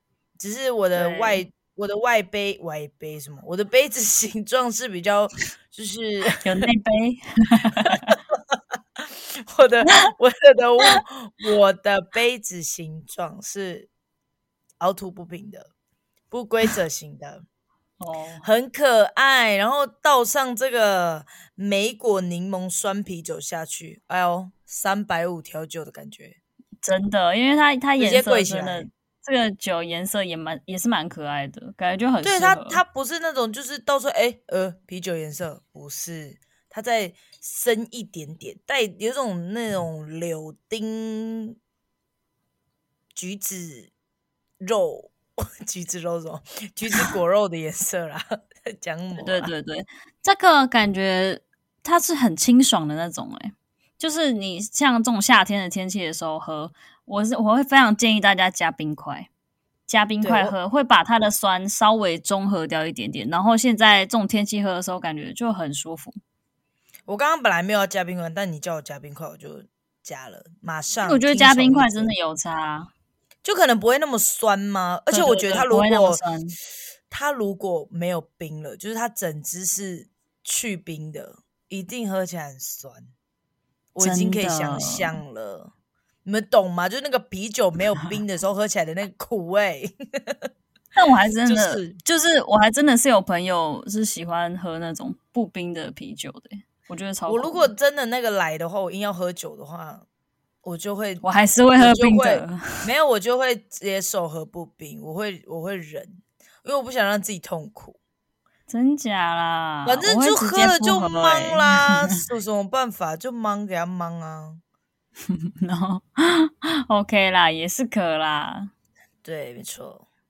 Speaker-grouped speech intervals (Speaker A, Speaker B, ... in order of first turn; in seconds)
Speaker A: 0.4-6.4, 7.8-13.9, 14.8-15.7, 16.3-17.4, 18.4-26.4, 28.0-28.9, 32.2-41.6, 43.1-43.9, 44.6-49.5, 60.2-60.5, 67.1-72.1, 73.4-76.2, 77.1-83.1, 83.9-85.7, 86.2-90.4, 91.5-92.0, 97.3-100.0, 100.6-101.2, 101.8-108.0, 109.8-114.6, 119.2-120.0
Speaker B: 0.9-1.4, 6.4-8.1, 18.0-18.4, 26.8-32.8, 49.2-59.3, 59.9-66.2, 71.0-72.9, 75.1-76.6, 84.0-85.2, 90.9-97.7, 101.2-102.9, 108.7-112.2, 115.3-118.7